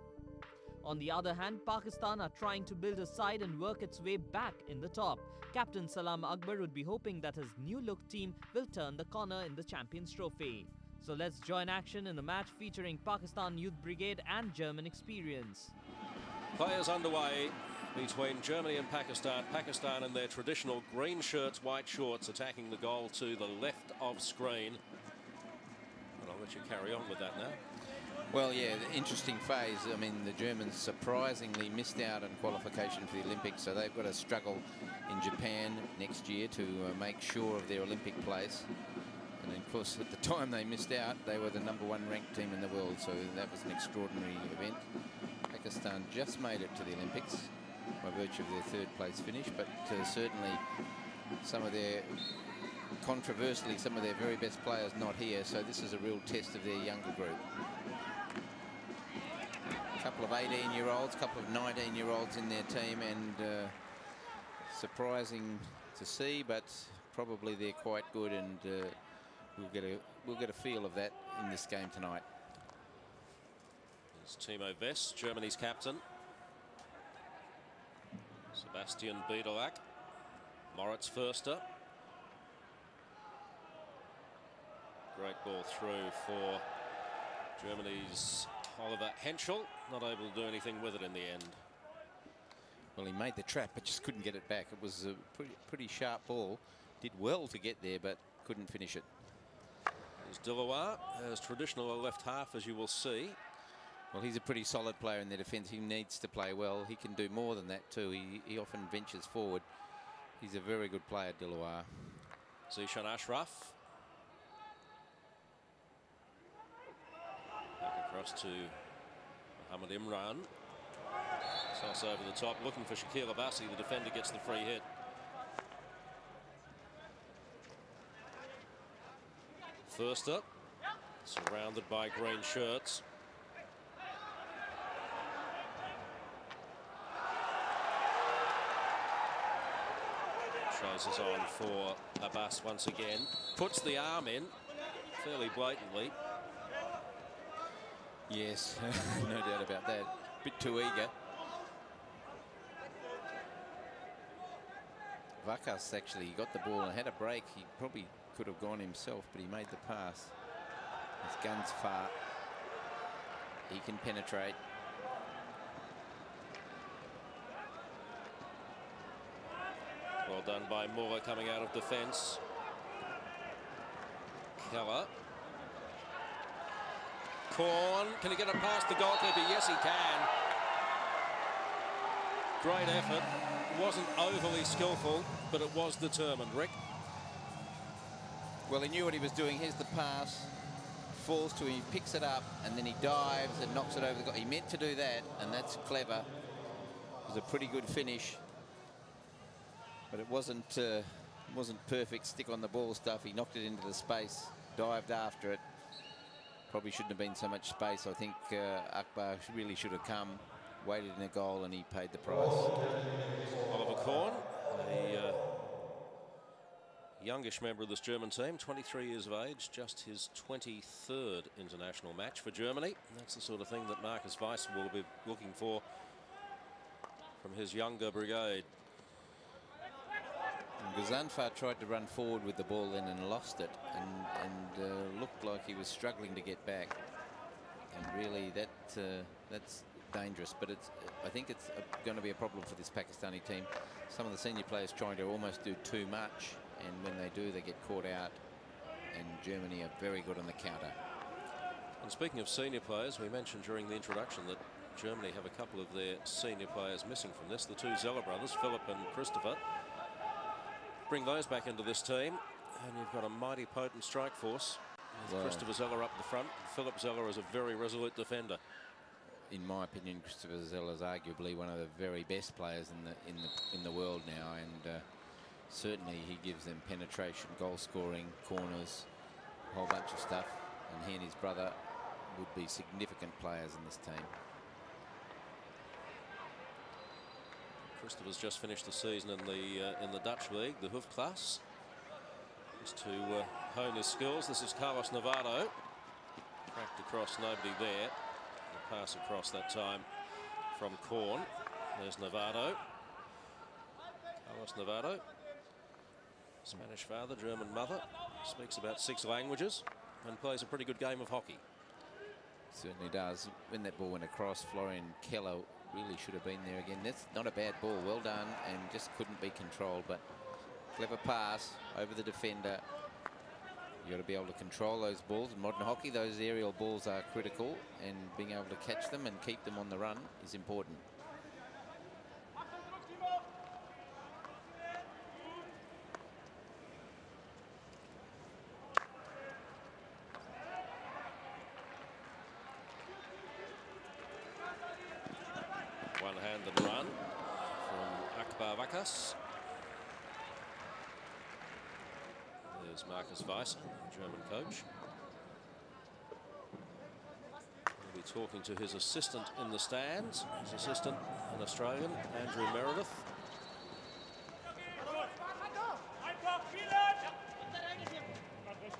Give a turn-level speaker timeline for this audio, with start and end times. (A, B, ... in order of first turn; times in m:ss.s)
0:00.8-0:15.7 A
0:16.5-0:24.8 B
0:26.2-0:27.6 B
0:28.3-0:38.7 C
0:39.4-0:44.9 C
0:45.5-0:50.6 C
0:51.4-0:52.4 C
0:53.0-0:57.4 C
1:00.0-1:12.3 C
1:14.1-1:16.0 B
1:18.5-1:19.8 B
1:20.7-1:21.6 B
1:25.1-1:26.6 B
1:27.6-1:31.7 B
1:33.0-1:39.1 C
1:40.2-1:43.4 B
1:44.1-1:49.7 C
1:50.4-1:52.3 C
1:52.7-1:53.8 B
1:57.8-1:58.8 B
1:59.6-2:00.5 B
2:01.7-2:04.9 B
2:09.9-2:10.5 B
2:11.2-2:13.0 B
2:20.7-2:24.6 B
2:25.2-2:26.2 B
2:28.3-2:31.2 C
2:35.4-2:40.4 C
2:41.2-2:42.2 C
2:43.7-2:44.6 C
2:50.2-2:52.4 B
2:54.6-2:55.1 B
2:57.5-3:00.3 B
3:02.6-3:06.8 B
3:08.7-3:16.3 C
3:17.2-3:18.4 C
3:20.1-3:25.7 C
3:26.7-3:32.7 C
3:33.7-3:35.4 B
3:37.2-3:45.8 B
3:47.4-3:48.7 B
3:50.8-3:57.0 C
3:57.9-4:08.4 C
4:09.1-4:11.0 C
4:12.0-4:19.6 B
4:21.1-4:28.6 B
4:25.3-4:25.6 C
4:29.3-4:39.1 C
4:39.7-4:44.4 C
4:47.9-4:51.6 B
4:52.8-4:55.7 B
4:56.7-4:58.2 B
4:58.7-5:00.1 B
5:00.7-5:02.8 B
5:04.4-5:05.3 B
5:06.6-5:11.6 B
5:12.7-5:20.2 C
5:20.9-5:22.9 C
5:24.0-5:31.1 C
5:46.2-5:47.2 B
5:47.8-5:49.4 B
5:52.7-5:54.9 B
5:58.0-6:03.3 B